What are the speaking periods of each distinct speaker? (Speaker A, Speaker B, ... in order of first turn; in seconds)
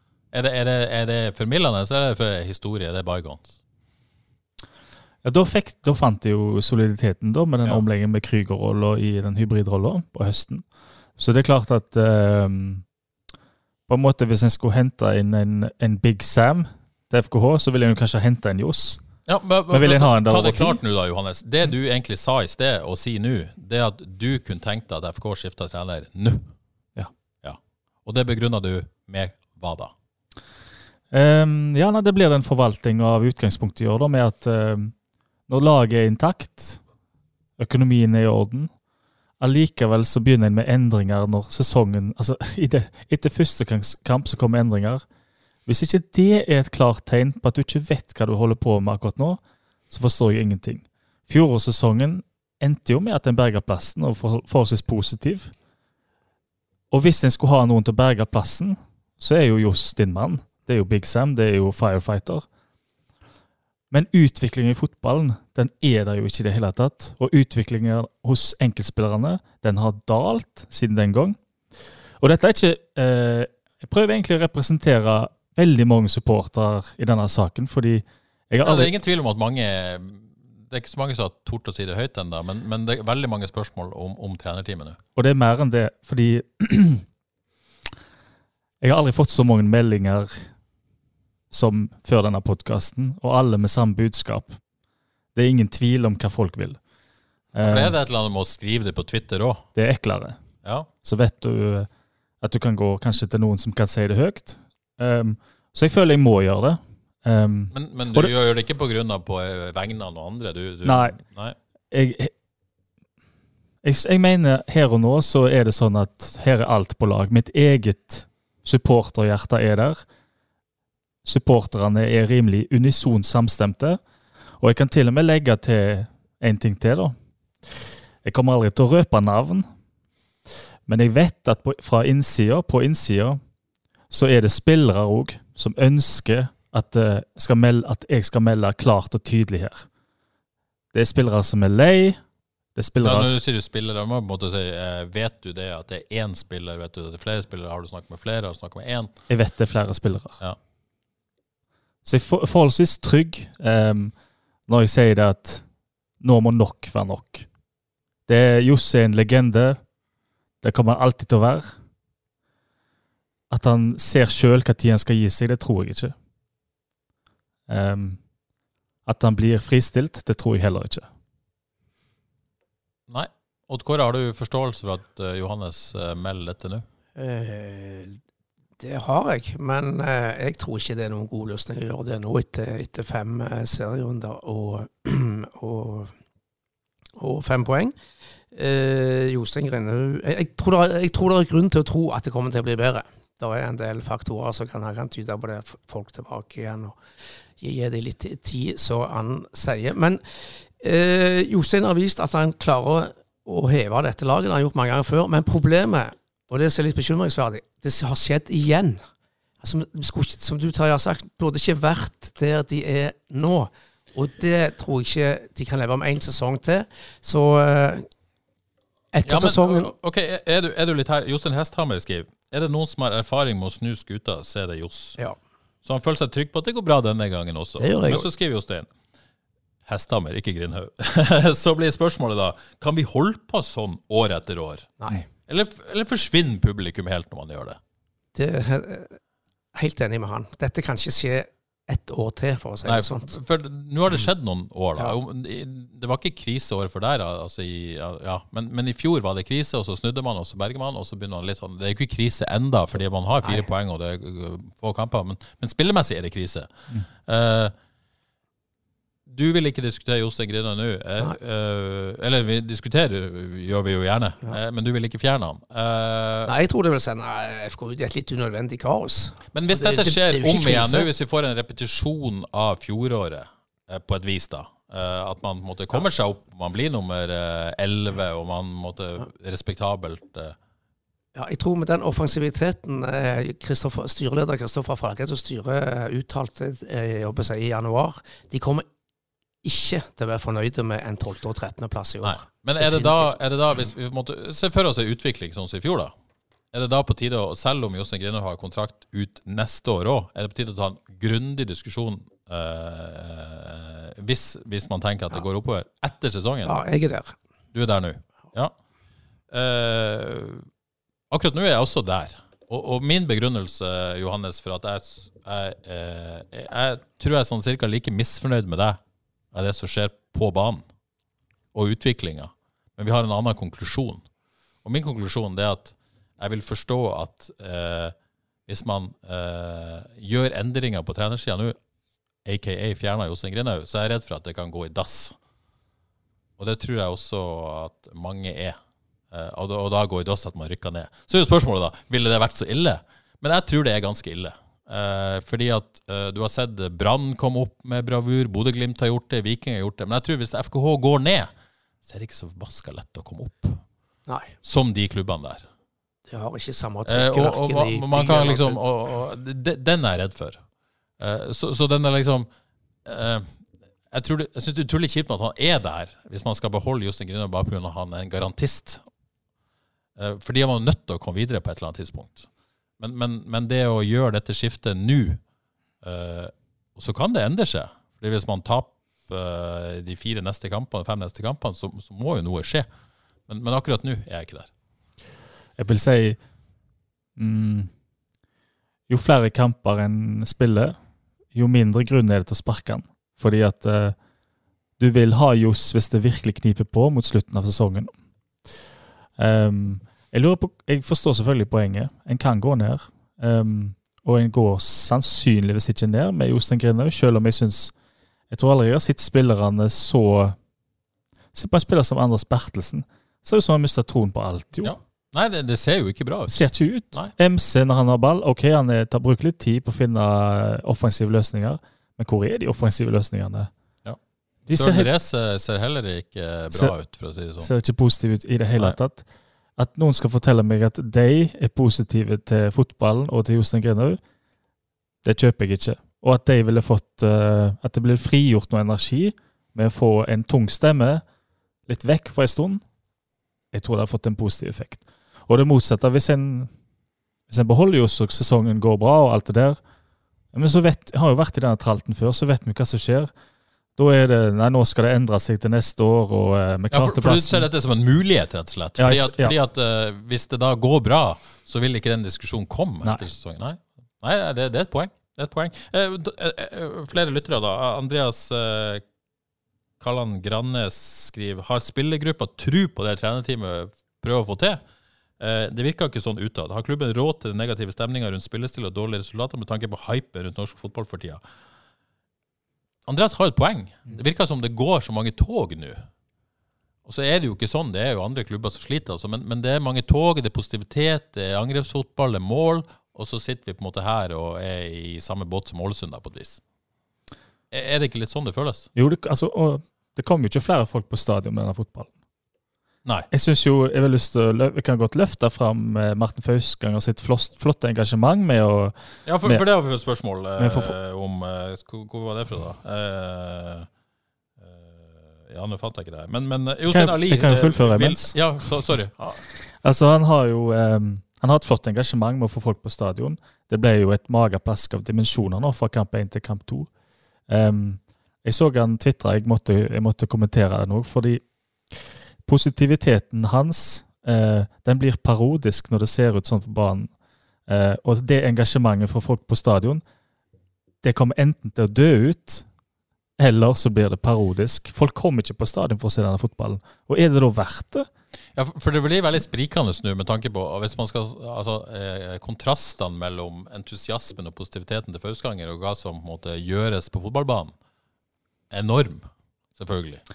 Speaker A: 0.3-3.6, 19.2-26.5, 27.4-29.9, 78.6-85.0, 97.6-99.6, 100.6-100.9, 107.7-111.5, 143.0-149.1, 173.1-176.8, 219.2-225.2, 225.8-228.9, 229.8-234.9, 235.5-237.8, 242.8-256.7, 257.2-257.7, 259.3-266.5, 269.5-280.6, 292.2-296.1, 296.7-306.8, 307.7-308.7, 309.5-310.6, 311.3-319.0, 319.5-320.8, 321.7-324.2, 324.8-328.1, 328.7-331.8, 332.4-335.4, 336.6-338.8, 339.3-351.5, 352.0-353.8, 354.6-355.6, 357.1-360.6, 361.2-362.5, 363.0-363.5, 364.1-369.0, 370.2-372.5, 373.0-375.4, 376.0-382.9, 383.5-384.7, 414.8-417.3, 424.7-427.7, 456.9-469.0, 470.0-474.8, 475.4-481.4, 483.1-486.1, 487.0-496.6, 497.7-498.9, 509.2-513.9, 514.6-519.4, 548.5-557.7, 558.7-560.2
Speaker B: 5.2-10.6, 11.2-12.8, 13.9-19.0, 19.7-20.8, 31.1-34.9, 35.5-36.8, 37.6-38.7, 39.4-45.0, 45.6-49.4, 49.9-55.5, 56.9-62.5, 63.9-71.4, 72.2-78.9, 85.2-87.0, 88.8-90.5, 91.5-94.6, 95.3-96.8, 97.5-97.9, 99.8-100.4, 101.0-101.9, 102.4-108.3, 110.8-111.2, 111.9-112.3, 113.8-120.0, 121.2-124.0, 124.6-127.1, 128.2-129.7, 130.9-133.4, 134.1-139.9, 140.9-142.2, 142.7-143.3, 149.3-150.4, 152.0-154.1, 154.7-155.6, 156.2-157.5, 158.3-159.8, 160.6-161.7, 163.5-166.1, 167.7-168.2, 169.1-171.1, 385.8-386.4, 387.4-387.9, 389.1-390.9, 391.5-394.1, 395.0-398.1, 399.4-407.9, 408.5-410.6, 411.5-414.9, 416.5-423.7, 424.7-425.1, 427.6-429.2, 429.8-434.2, 435.2-441.2, 441.9-442.8, 443.7-446.7, 447.5-449.8, 450.5-453.3, 453.9-457.7, 459.0-459.5, 498.9-502.1, 503.3-509.6, 510.6-510.9, 516.9-518.4, 519.7-526.9, 527.5-537.1, 537.7-540.0, 541.0-542.6, 543.4-548.1
Speaker C: 177.2-178.2, 178.8-186.1, 187.2-187.9, 188.5-197.0, 197.6-209.0, 209.6-218.1, 219.1-219.9, 227.8-228.3, 238.3-239.2, 239.7-243.3, 266.4-271.1, 281.3-288.8, 289.6-293.4, 306.6-307.4, 354.3-354.5, 356.3-358.8